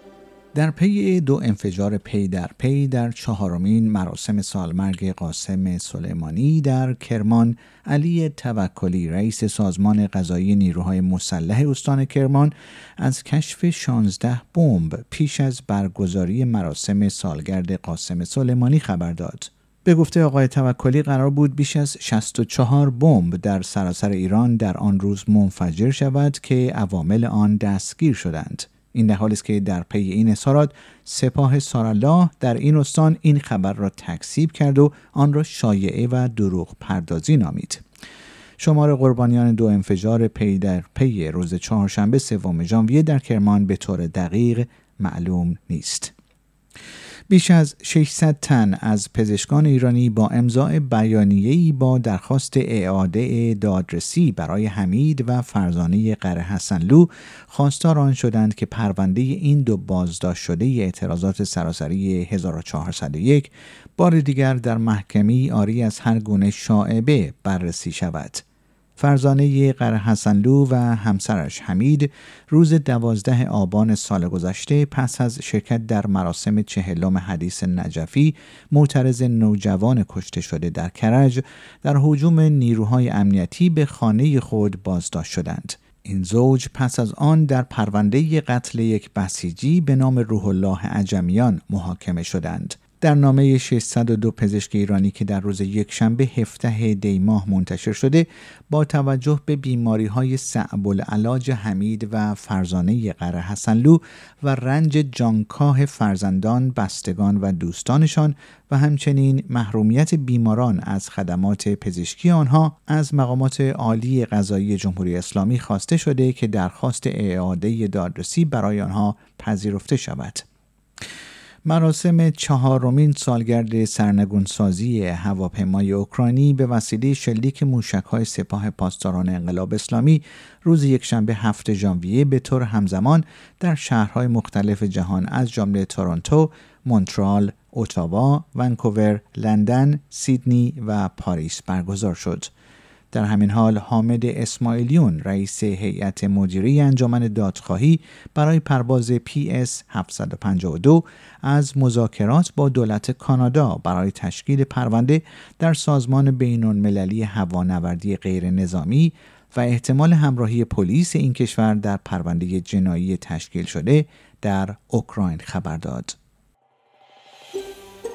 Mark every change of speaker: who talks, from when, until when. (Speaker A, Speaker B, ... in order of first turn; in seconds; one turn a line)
Speaker A: 0.5-37.8
Speaker A: 38.6-46.1
Speaker A: 47.3-68.4
Speaker A: 69.0-120.4
Speaker A: 121.6-142.5
Speaker A: 143.1-166.2